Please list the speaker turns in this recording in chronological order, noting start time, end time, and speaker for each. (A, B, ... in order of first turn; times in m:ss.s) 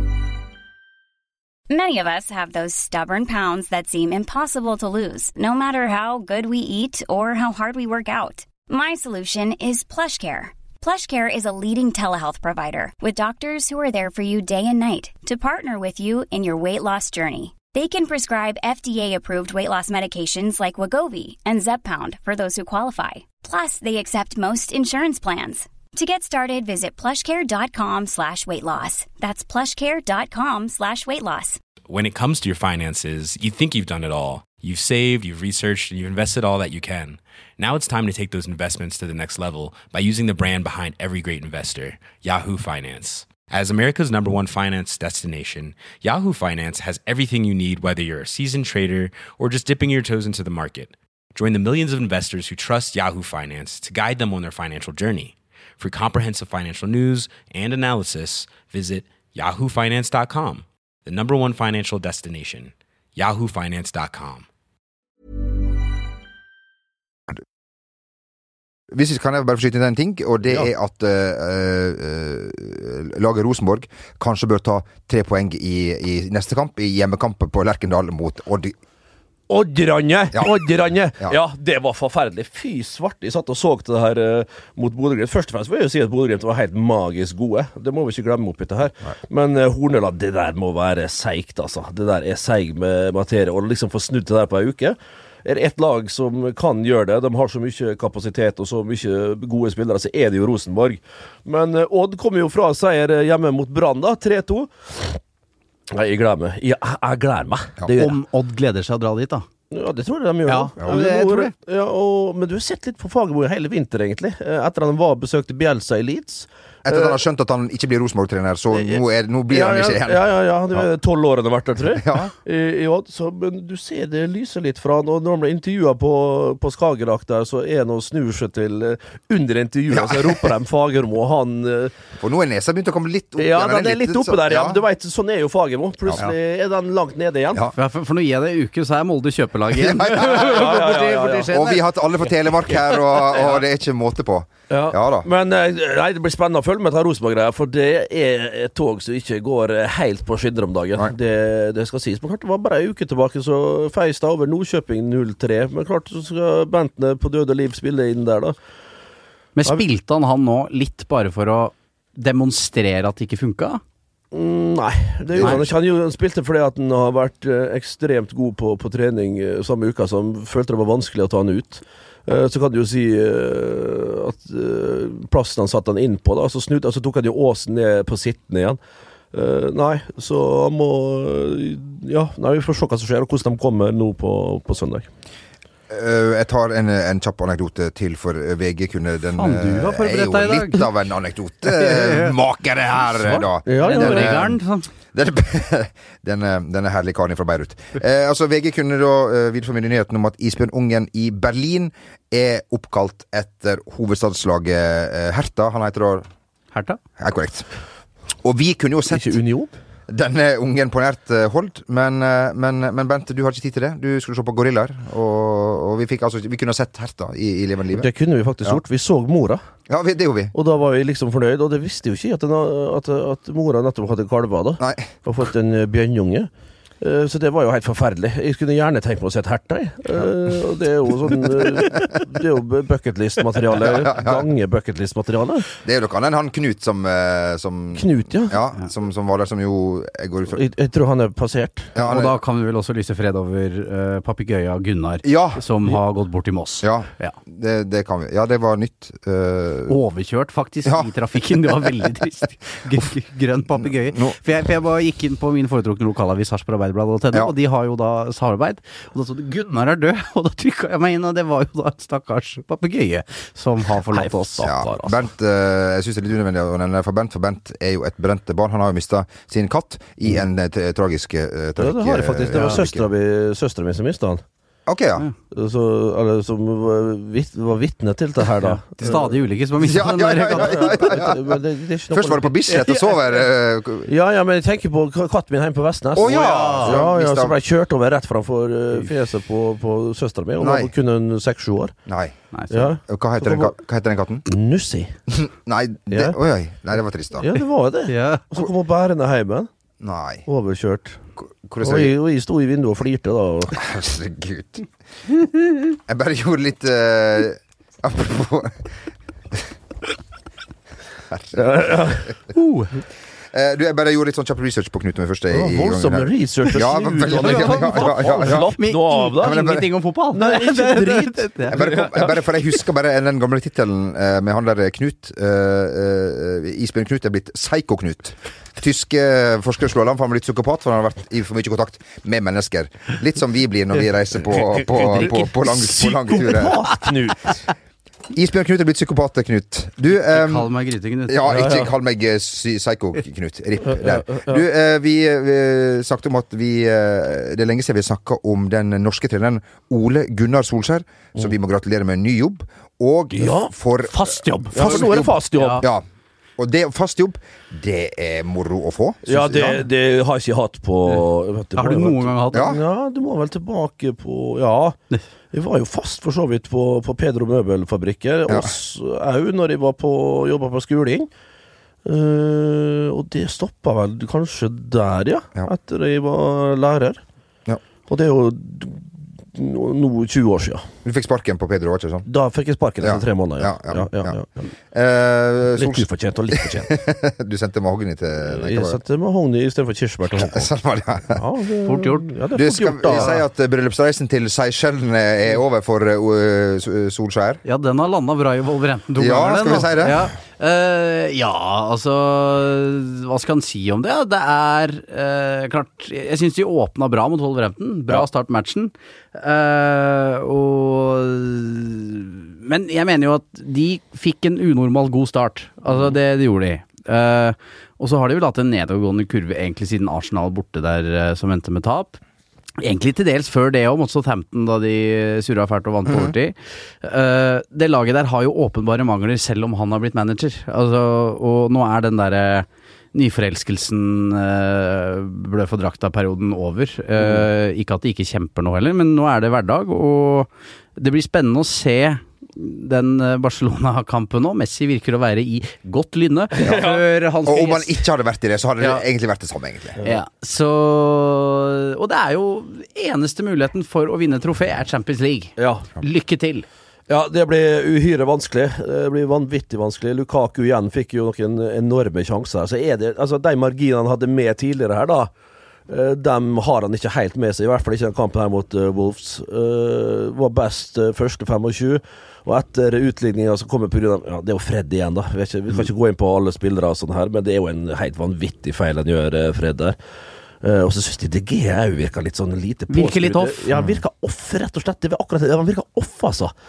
0:01.7-0:31.6 A
0:31.9-1:04.5 B
1:08.9-1:18.8 C
1:19.5-1:45.2 D
1:45.9-1:48.2 D
1:48.0-1:49.4 E
1:49.7-1:57.2 D
1:50.5-1:51.5 E
1:50.8-1:51.0 C
1:56.8-2:00.9 C
1:58.7-2:11.9 D
2:01.9-2:02.3 C
2:09.9-2:10.5 C
2:12.2-2:14.8 C
2:13.4-2:17.7 D
2:16.1-2:16.3 C
2:17.7-2:21.8 E
2:19.7-2:25.3 C
2:20.3-2:21.5 D
2:24.7-2:38.6 D
2:39.6-2:43.8 E
2:44.3-2:58.8 D
2:45.4-2:45.7 C
2:45.4-2:45.6 E
2:59.3-3:05.1 D
3:05.9-3:14.6 C
3:09.4-3:10.9 E
3:11.7-3:12.4 E
3:13.2-3:14.9 E
3:13.6-3:14.4 D
3:15.1-3:26.3 C
3:26.7-3:27.0 E
3:27.2-3:27.7 C
3:28.4-3:29.4 C
3:29.1-3:29.7 D
3:30.1-3:38.1 C
3:37.9-3:39.6 D
3:39.9-3:40.5 C
3:40.5-3:46.5 D
3:44.8-3:45.1 C
3:47.0-3:55.7 D
3:51.3-3:52.0 C
3:53.8-3:54.5 C
3:55.8-4:00.6 C
3:57.9-3:58.6 D
4:00.5-4:01.9 D
4:02.0-4:02.4 C
4:02.0-4:07.4 E
4:05.2-4:05.6 C
4:06.8-4:10.0 C
4:09.9-4:24.7 E
4:14.1-4:14.4 C
4:24.1-4:25.2 D
4:24.6-4:33.1 C
4:31.8-4:34.4 D
4:34.9-4:35.2 C
4:35.5-4:39.4 D
4:38.6-4:41.2 E
4:39.8-4:41.6 C
4:40.5-4:43.0 D
4:42.1-4:44.1 C
4:44.1-4:51.9 D
4:46.2-4:47.6 C
4:46.2-4:47.0 E
4:50.6-4:50.9 C
4:52.1-4:52.3 C
4:52.5-4:52.9 E
4:52.7-4:53.7 D
4:53.1-4:54.5 C
4:54.5-4:55.1 D
4:55.3-4:57.6 C
4:56.1-4:56.4 D
4:57.4-4:59.7 D
4:58.1-4:58.4 E
5:00.0-5:00.5 C
5:00.5-5:01.2 D
5:01.4-5:02.1 C
5:01.8-5:03.8 D
5:03.7-5:04.9 C
5:06.0-5:08.9 C
5:11.3-5:11.8 C
5:11.6-5:12.3 D
5:12.5-5:13.0 E
5:13.5-5:18.7 C
5:15.5-5:19.6 D
5:17.3-5:21.8 E
5:19.3-5:19.9 C
5:20.3-5:22.4 D
5:21.7-5:37.0 C
5:34.8-5:37.6 D
5:38.3-5:40.7 C
5:40.2-5:41.7 E
5:41.3-5:56.0 C
5:41.5-5:41.8 D
5:43.8-5:44.6 D
5:53.3-5:53.7 D
5:54.1-5:55.8 E
5:54.7-5:55.9 D
5:56.6-5:59.9 C
5:59.3-6:05.0 D
6:01.8-6:02.7 E
6:02.5-6:02.8 C
6:05.5-6:11.3 D
6:08.5-6:08.7 C
6:12.0-6:17.2 D
6:18.1-6:20.8 D
6:21.0-6:22.3 C
6:22.3-6:24.7 D
6:23.0-6:24.4 C
6:24.9-6:29.0 C
6:25.8-6:26.9 D
6:28.5-6:30.7 D
6:30.3-6:31.4 C
6:31.3-6:33.4 D
6:31.9-6:32.3 E
6:32.5-6:37.6 C
6:37.6-7:02.2 E
6:39.2-6:40.3 C
7:02.8-7:28.0 E
7:06.1-7:06.3 C
7:26.5-7:27.0 D
7:27.5-7:30.0 C
7:30.0-7:36.7 E
7:35.6-7:35.9 D
7:37.1-7:45.3 D
7:45.9-8:00.0 D
8:00.6-8:06.5 D
8:02.9-8:03.8 E